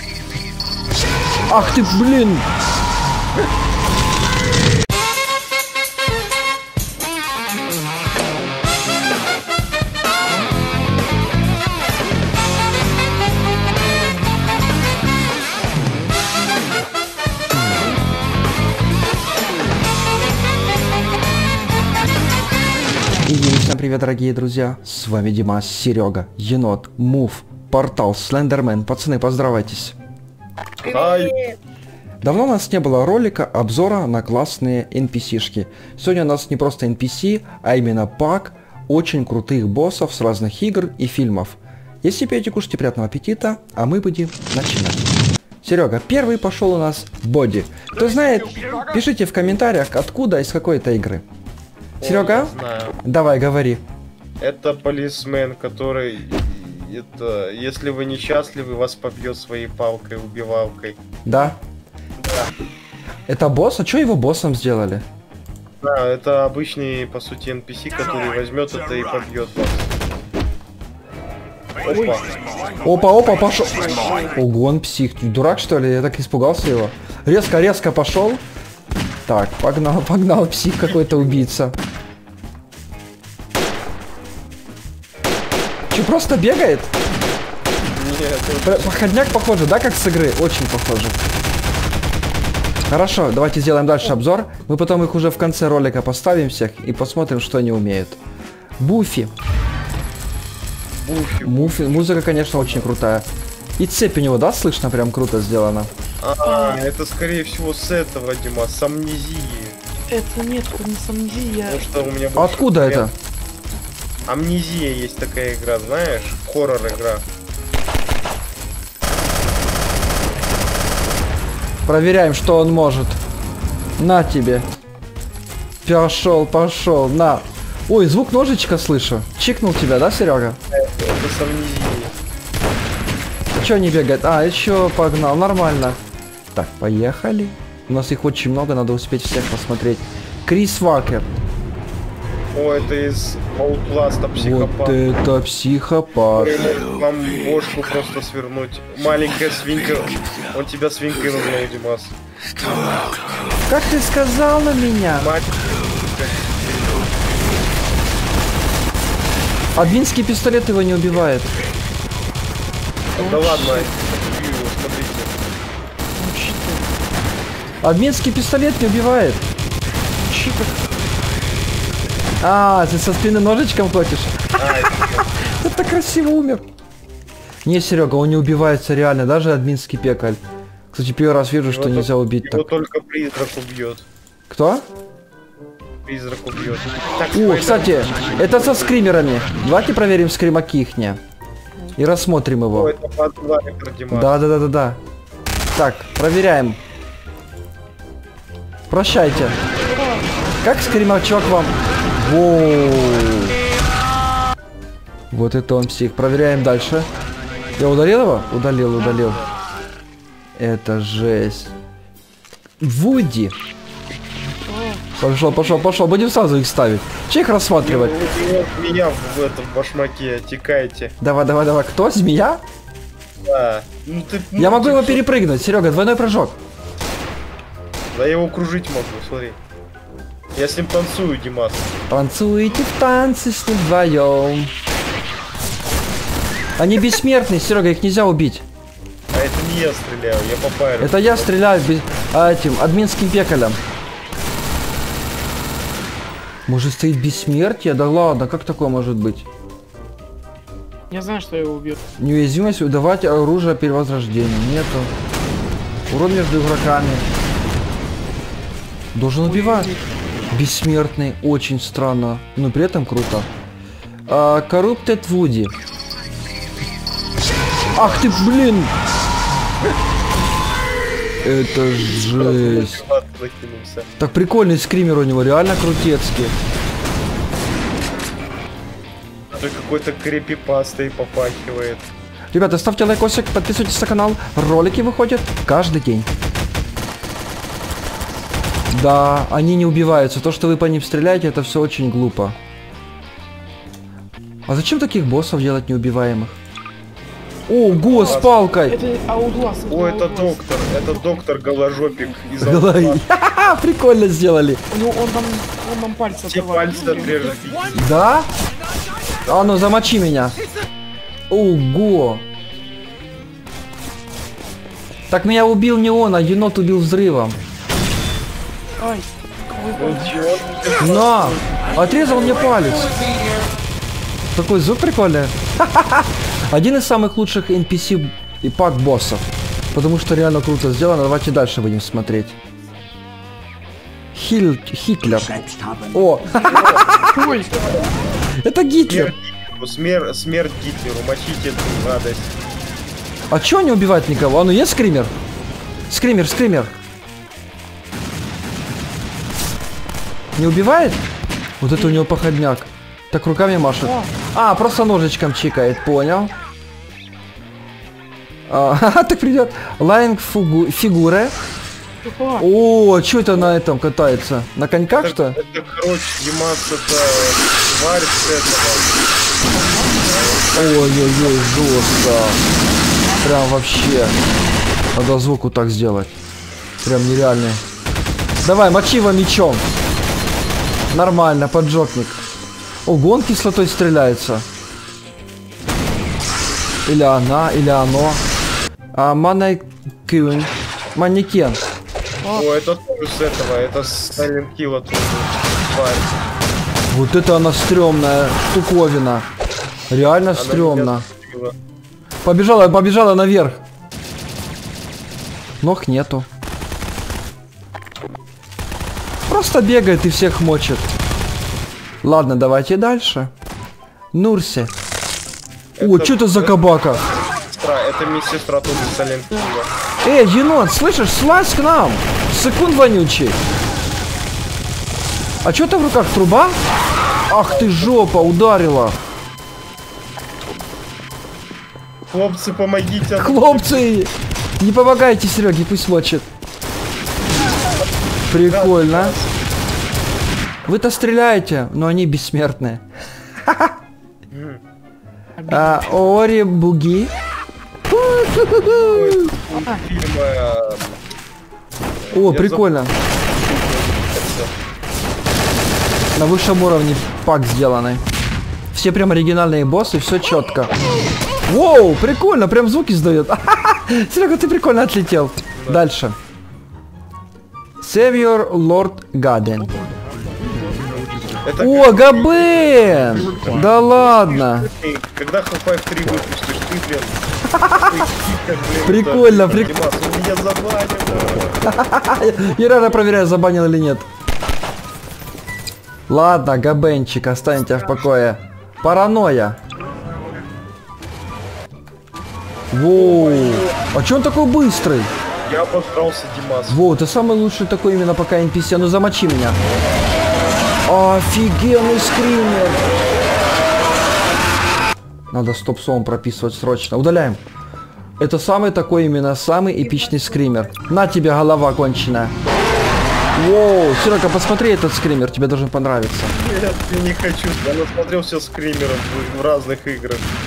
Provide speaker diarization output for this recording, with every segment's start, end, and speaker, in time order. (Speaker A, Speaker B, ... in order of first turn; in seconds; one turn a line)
Speaker A: 1.5-2.5
Speaker A: 23.2-29.9
Speaker B: 30.8-31.5
Speaker A: 32.2-45.0
Speaker A: 45.6-51.2
Speaker B: 52.0-53.0
Speaker A: 52.0-52.5
Speaker A: 53.0-53.8
Speaker B: 54.4-61.0
Speaker A: 61.2-61.6
Speaker B: 62.2-62.5
Speaker A: 63.3-65.0
Speaker B: 65.8-70.0
Speaker B: 71.8-72.3
Speaker A: 72.8-78.4
Speaker A: 79.2-81.8
Speaker B: 80.8-81.5
Speaker A: 85.9-86.9
Speaker B: 87.9-89.1
Speaker A: 88.6-91.2
Speaker A: 92.9-98.2
Speaker A: 98.8-99.3
Speaker B: 100.9-102.9
Speaker A: 101.4-103.3
Speaker A: 103.8-105.9
Speaker B: 106.2-109.8
Speaker C: 106.4-106.8
Speaker C: 110.1-111.9
Speaker B: 111.7-113.1
Speaker A: 112.3-113.1
Speaker B: 114.2-117.2
Speaker A: 121.8-123.2
Speaker A: 124.0-124.7
Speaker A: 125.8-130.6
Speaker B: 130.7-132.1
Speaker A: 133.5-136.0
Speaker A: 136.5-141.3
Speaker B: 142.5-145.0
Speaker A: 144.3-146.7
Speaker B: 146.3-152.2
Speaker A: 153.7-155.3
Speaker B: 155.2-156.2
Speaker A: 159.8-161.6
Speaker C: 163.1-163.9
Speaker B: 163.2-165.3
Speaker C: 166.1-166.9
Speaker A: 167.8-169.5
Speaker C: 170.2-170.8
Speaker A: 172.4-176.6
Speaker B: 174.6-175.3
Speaker A: 177.6-180.4
Speaker A: 180.9-182.7
Speaker B: 181.6-184.1
Speaker A: 184.5-184.8
Speaker B: 186.0-188.5
Speaker A: 187.3-191.2
Speaker A: 191.9-192.9
Speaker B: 192.7-194.4
Speaker A: 194.1-195.0
Speaker A: 195.7-196.8
Speaker A: 198.9-199.6
Speaker C: 199.9-200.3
Speaker A: 200.6-203.6
Speaker A: 205.3-207.1
Speaker A: 207.8-209.4
Speaker A: 210.6-211.7
Speaker A: 212.8-213.6
Speaker C: 214.7-215.0
Speaker A: 215.2-218.2
Speaker B: 217.8-221.1
Speaker A: 221.2-222.6
Speaker B: 223.4-225.3
Speaker A: 224.6-226.6
Speaker B: 228.1-229.6
Speaker B: 230.5-231.9
Speaker A: 232.1-234.7
Speaker A: 236.8-238.6
Speaker B: 239.3-241.5
Speaker A: 241.0-243.8
Speaker A: 246.7-249.4
Speaker C: 251.1-252.0
Speaker A: 252.2-255.1
Speaker A: 256.1-257.3
Speaker A: 259.1-259.9
Speaker C: 259.4-260.0
Speaker A: 260.5-263.5
Speaker A: 264.3-265.7
Speaker A: 267.9-268.9
Speaker B: 267.9-268.4
Speaker A: 271.4-273.0
Speaker B: 272.2-274.1
Speaker A: 274.2-276.6
Speaker B: 279.5-282.1
Speaker A: 282.5-286.3
Speaker A: 288.9-292.6
Speaker A: 294.7-296.6
Speaker A: 297.7-299.0
Speaker B: 297.9-298.7
Speaker C: 298.9-300.6
Speaker B: 299.9-303.2
Speaker A: 302.6-304.8
Speaker C: 304.9-307.4
Speaker B: 306.4-308.1
Speaker A: 307.9-308.5
Speaker A: 309.5-310.6
Speaker A: 311.5-312.4
Speaker A: 315.3-317.6
Speaker C: 319.0-320.4
Speaker B: 319.9-321.9
Speaker A: 321.0-323.1
Speaker A: 324.5-332.6
Speaker A: 334.3-337.5
Speaker B: 336.7-337.1
Speaker C: 337.3-337.7
Speaker A: 338.6-339.3
Speaker B: 339.1-342.6
Speaker A: 343.5-345.3
Speaker A: 346.1-346.9
Speaker A: 350.6-351.2
Speaker A: 351.8-356.5
Speaker C: 354.0-354.3
Speaker A: 358.7-361.5
Speaker C: 362.2-362.7
Speaker A: 362.6-365.6
Speaker B: 365.2-369.2
Speaker C: 369.7-370.5
Speaker B: 370.2-371.7
Speaker A: 370.8-372.6
Speaker A: 373.4-374.4
Speaker A: 375.1-376.3
Speaker A: 377.0-377.8
Speaker A: 378.6-379.9
Speaker A: 381.1-382.4
Speaker A: 383.1-384.6
Speaker A: 387.1-388.4
Speaker A: 389.1-391.8
Speaker C: 392.4-392.7
Speaker B: 392.5-396.4
Speaker A: 397.1-399.5
Speaker A: 400.1-401.2
Speaker B: 400.5-401.7
Speaker A: 402.4-403.8
Speaker A: 405.8-406.5
Speaker A: 409.5-411.1
Speaker A: 412.2-413.5
Speaker A: 414.3-414.9
Speaker B: 415.9-419.9
Speaker A: 416.0-417.2
Speaker A: 420.2-423.6
Speaker A: 425.6-426.8
Speaker A: 427.5-429.2
Speaker B: 427.8-428.2
Speaker B: 432.3-434.1
Speaker A: 433.4-436.5
Speaker A: 438.5-439.3
Speaker B: 438.5-439.6
Speaker A: 440.8-443.0
Speaker A: 443.6-443.9
Speaker B: 444.5-444.8
Speaker C: 445.6-446.0
Speaker A: 445.6-447.3
Speaker A: 448.1-449.5
Speaker B: 448.8-451.2
Speaker B: 452.3-454.7
Speaker A: 452.3-453.1
Speaker A: 456.3-458.2
Speaker A: 458.9-460.9
Speaker A: 461.6-466.4
Speaker B: 465.8-466.0
Speaker A: 468.0-469.9
Speaker B: 471.6-472.9
Speaker A: 471.8-474.9
Speaker B: 474.3-481.8
Speaker A: 477.7-478.1
Speaker A: 479.0-479.9
Speaker A: 481.8-484.3
Speaker A: 486.3-489.8
Speaker A: 492.9-495.3
Speaker B: 493.1-494.0
Speaker B: 495.6-497.1
Speaker A: 496.9-499.8
Speaker A: 501.1-503.1
Speaker A: 505.5-507.6
Speaker A: 508.4-512.5
Speaker A: 513.5-516.5
Speaker B: 516.5-520.5